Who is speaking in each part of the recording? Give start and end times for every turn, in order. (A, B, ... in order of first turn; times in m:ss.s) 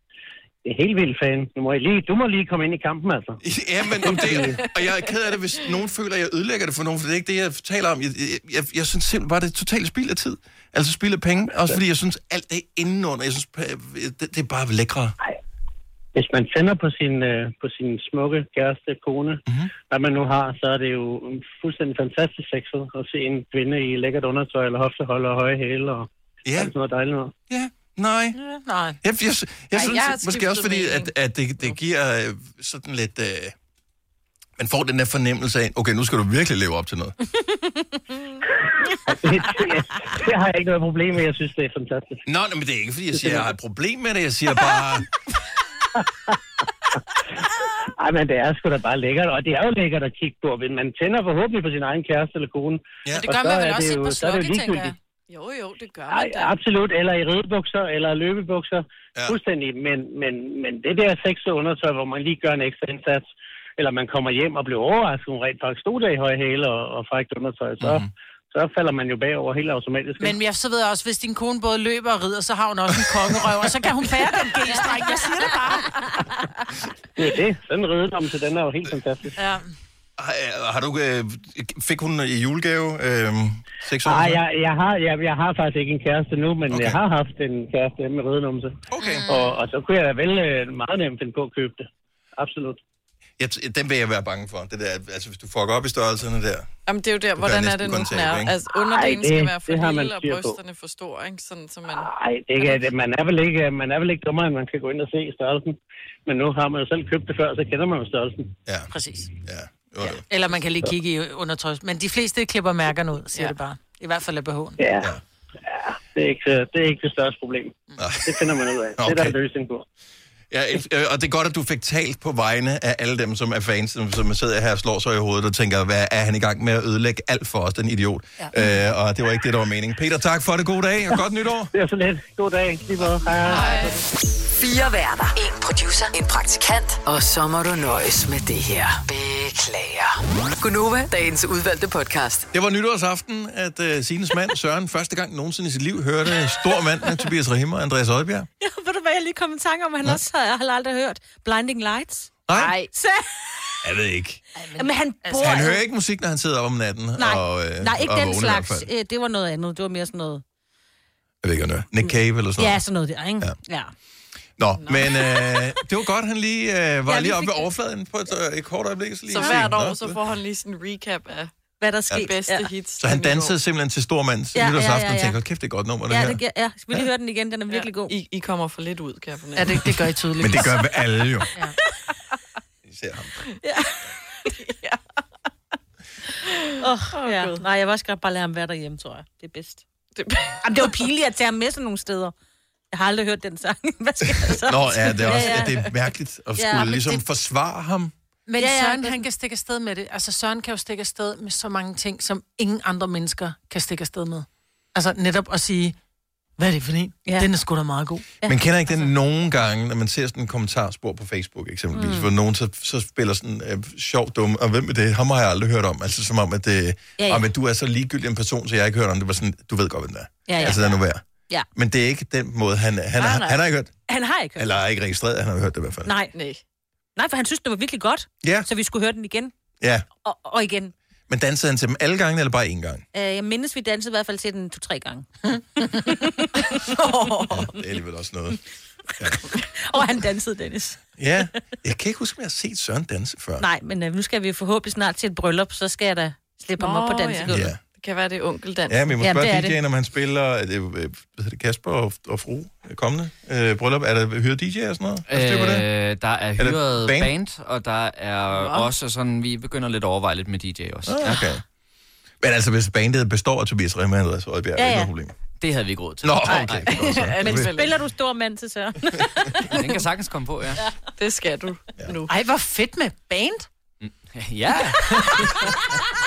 0:00.6-0:03.4 A
0:03.4-0:15.1 B
0:04.0-0:04.6 A
0:04.1-0:04.9 C
0:16.1-0:27.3 A
0:26.4-0:26.7 B
0:27.5-0:28.4 B
0:28.3-0:29.0 D
0:29.0-0:33.5 B
0:29.7-0:31.1 C
0:34.6-0:37.2 B
0:39.1-0:42.2 A
0:42.2-0:45.1 B
0:43.1-0:43.5 A
0:48.0-0:55.0 A
0:53.2-0:55.0 D
0:55.3-0:56.5 C
0:56.1-1:10.4 A
1:07.8-1:08.1 B
1:10.2-1:16.1 D
1:17.2-1:19.4 A
1:19.4-1:19.7 D
1:20.2-1:24.4 B
1:24.0-1:31.9 A
1:26.7-1:27.0 B
1:28.9-1:29.3 B
1:29.0-1:29.6 D
1:32.4-1:32.8 A
1:33.4-1:36.7 B
1:36.9-1:42.1 C
1:37.4-1:38.5 B
1:38.8-1:40.6 A
1:41.9-1:48.5 A
1:48.9-1:49.3 D
1:49.4-1:50.2 B
1:50.3-1:54.8 D
1:54.8-1:55.1 A
1:55.6-1:59.8 A
1:58.0-1:59.4 B
2:00.5-2:11.7 B
2:11.7-2:14.0 A
2:13.5-2:14.0 C
2:14.6-2:22.5 E
2:22.5-2:28.5 B
2:28.6-2:33.7 F
2:32.5-2:32.8 B
2:33.8-2:34.4 B
2:34.5-2:35.7 D
2:34.8-2:35.8 F
2:35.4-2:38.9 B
2:37.2-2:40.4 F
2:41.4-2:42.8 B
2:42.0-2:43.9 F
2:44.6-2:50.2 B
2:44.8-2:45.1 C
2:47.1-2:47.7 F
2:49.3-2:51.5 C
2:49.4-2:49.7 F
2:51.8-2:52.7 F
2:52.1-2:53.5 C
2:53.0-2:56.4 B
2:54.5-2:55.4 F
2:56.1-2:58.1 F
2:57.7-3:00.1 C
2:59.5-3:00.9 D
3:00.4-3:01.5 B
3:02.8-3:03.3 B
3:03.6-3:03.9 F
3:04.6-3:05.0 C
3:06.8-3:09.8 F
3:07.1-3:07.6 C
3:10.1-3:10.6 C
3:10.6-3:12.3 F
3:12.9-3:15.9 F
3:14.2-3:18.1 B
3:16.6-3:17.2 F
3:18.4-3:26.0 D
3:18.6-3:19.2 F
3:26.6-3:28.2 D
3:28.4-3:41.2 B
3:31.9-3:32.3 F
3:37.2-3:37.4 F
3:40.5-3:41.0 F
3:41.7-3:43.9 B
3:43.2-3:43.6 C
3:44.1-3:44.8 F
3:44.6-3:46.1 B
3:46.0-3:46.3 F
3:46.3-3:46.6 C
3:47.2-3:49.5 F
3:48.4-3:48.7 B
3:49.8-3:50.0 B
3:50.2-3:50.9 F
3:51.3-3:53.0 B
3:53.1-3:56.9 F
3:56.8-3:57.6 C
3:57.5-3:58.6 B
3:59.2-4:01.0 F
4:01.2-4:03.6 B
4:03.6-4:07.7 F
4:06.8-4:09.1 C
4:07.5-4:07.8 B
4:08.9-4:15.9 B
4:09.2-4:09.8 F
4:15.3-4:21.6 G
4:16.6-4:17.3 B
4:18.5-4:18.9 C
4:21.0-4:21.6 B
4:22.4-4:25.3 B
4:24.8-4:25.1 F
4:25.6-4:27.1 G
4:26.2-4:27.7 B
4:26.5-4:27.9 C
4:27.4-4:29.7 F
4:29.7-4:30.9 G
4:31.2-4:32.3 C
4:32.3-4:33.7 D
4:34.0-4:35.4 G